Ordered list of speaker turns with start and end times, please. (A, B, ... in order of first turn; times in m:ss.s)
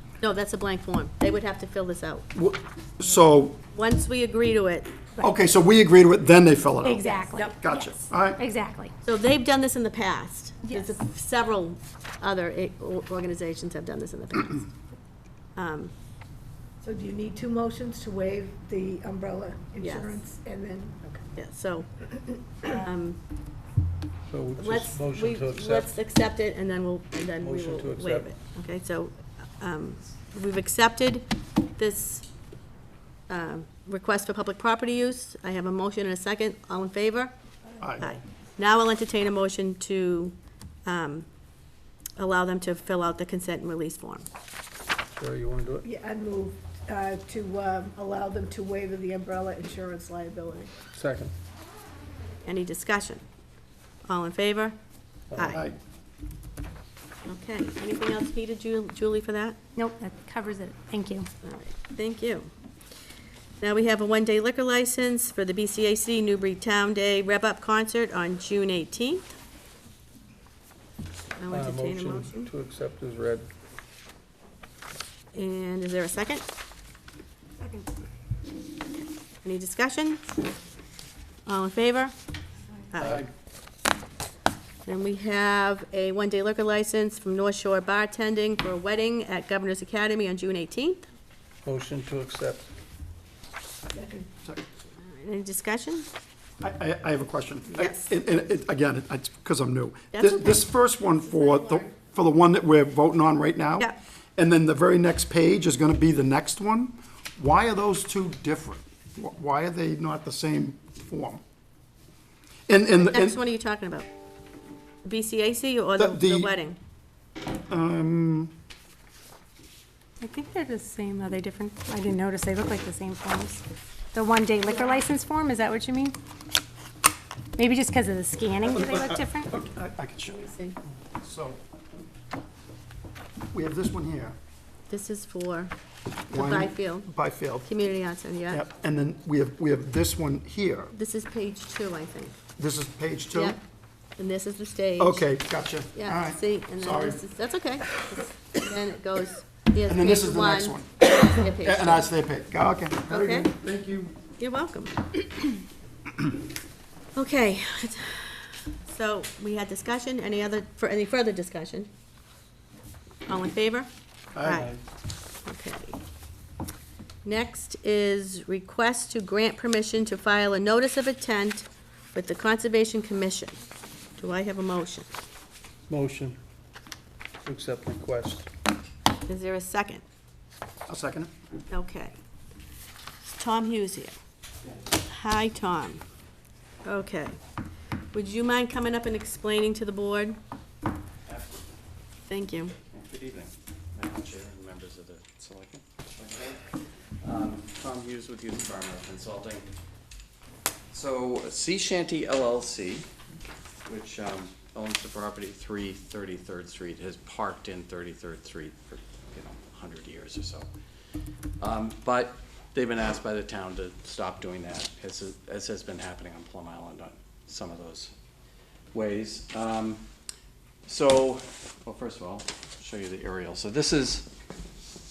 0:00.2-0:02.2 A
0:02.3-0:03.6 B
0:03.7-0:05.0 A
0:05.2-0:08.4 B
0:06.8-0:07.7 C
0:08.4-0:08.9 C
0:09.0-0:14.7 A
0:15.6-0:15.9 A
0:16.8-0:21.0 D
0:19.8-0:20.2 A
0:21.3-0:21.9 A
0:22.6-0:23.2 A
0:24.3-0:25.9 E
0:24.6-0:31.2 A
0:27.4-0:28.3 E
0:31.8-0:32.2 A
0:33.3-0:37.3 A
0:37.8-0:38.1 B
0:38.0-0:40.3 A
0:40.8-0:41.2 A
0:42.2-0:44.2 A
0:45.1-0:45.8 E
0:45.8-0:50.7 D
0:50.9-0:51.3 E
0:52.4-0:53.2 A
0:54.1-0:54.8 A
0:55.3-0:55.6 E
0:55.3-0:55.6 A
0:55.4-0:55.8 B
0:57.2-0:59.6 A
0:59.7-1:01.3 C
1:01.4-1:02.5 A
1:03.6-1:09.2 A
1:11.4-1:12.5 A
1:11.5-1:13.5 E
1:15.3-1:16.4 A
1:19.0-1:20.2 A
1:21.4-1:22.1 A
1:22.9-1:23.2 A
1:23.0-1:23.3 B
1:24.8-1:31.0 A
1:31.6-1:32.7 E
1:34.0-1:34.2 D
1:35.1-1:36.1 A
1:36.6-1:51.4 B
1:37.7-1:38.1 A
1:40.1-1:41.9 A
1:52.7-1:53.4 B
1:53.0-1:54.1 A
1:55.0-1:56.8 A
1:56.0-1:56.5 B
1:57.7-1:58.5 B
2:00.2-2:03.6 C
2:04.1-2:06.1 C
2:07.6-2:09.5 C
2:08.6-2:10.4 B
2:10.2-2:10.8 A
2:11.2-2:11.6 B
2:13.5-2:14.3 B
2:14.9-2:15.7 A
2:16.3-2:17.1 A
2:16.3-2:17.7 B
2:17.6-2:18.6 A
2:18.5-2:20.9 B
2:20.9-2:22.3 A
2:22.6-2:23.6 B
2:23.3-2:23.6 A
2:24.2-2:25.2 A
2:25.0-2:27.2 B
2:25.9-2:32.1 A
2:29.9-2:34.1 B
2:33.1-2:33.5 A
2:34.4-2:35.6 A
2:37.1-2:41.9 A
2:43.3-2:43.9 A
2:44.3-2:44.7 B
2:44.4-2:44.7 A
2:45.4-2:46.0 A
2:47.2-2:53.6 A
2:54.2-2:55.1 A
2:55.9-2:56.4 E
2:57.4-2:58.5 E
2:59.3-3:00.0 A
3:00.9-3:01.3 B
3:01.7-3:02.1 A
3:03.2-3:04.2 A
3:05.0-3:06.0 A
3:06.8-3:07.4 A
3:08.1-3:10.4 A
3:11.3-3:11.6 F
3:12.3-3:12.8 A
3:12.9-3:19.7 F
3:20.9-3:23.1 F
3:23.8-3:30.7 F
3:31.6-3:38.1 F
3:38.9-3:40.0 F
3:40.8-3:44.3 F